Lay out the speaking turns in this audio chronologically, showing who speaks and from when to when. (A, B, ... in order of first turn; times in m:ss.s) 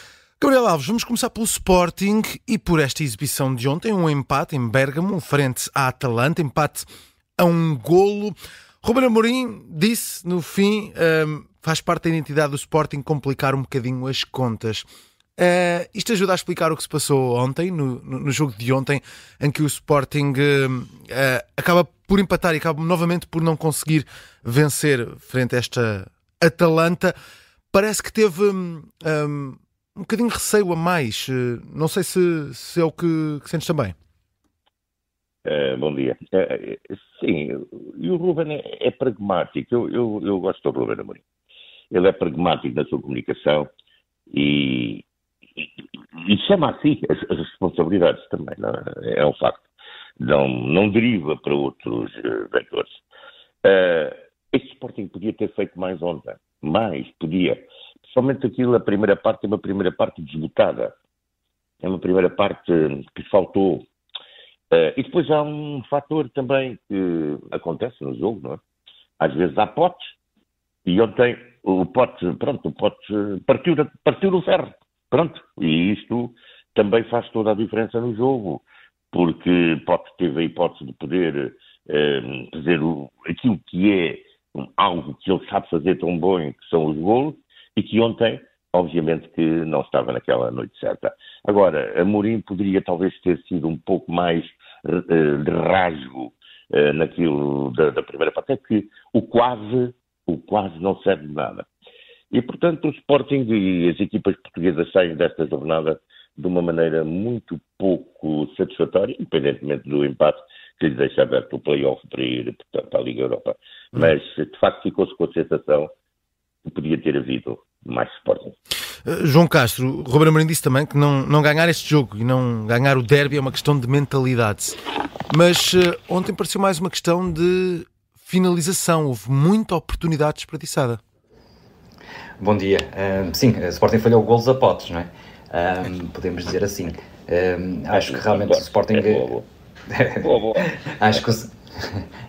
0:00.4-0:06.9 A
0:07.4-0:14.8 A
0:15.4-0:27.1 A
0:27.7-0:33.9 A
0:35.4-0:41.2 B
0:41.9-0:43.7 B
0:44.3-0:45.0 B
0:46.2-0:49.7 B
0:50.2-0:53.0 B
0:53.6-1:00.9 B
1:01.8-1:03.8 B
1:04.7-1:08.6 B
1:09.2-1:10.0 B
1:10.8-1:41.7 B
1:42.3-1:55.9 B
1:56.6-1:58.6 B
1:59.0-2:04.8 A
2:05.3-2:11.0 A
2:12.4-2:19.3 C
2:17.9-2:19.5 B
2:19.9-2:22.0 C
2:20.2-2:21.2 B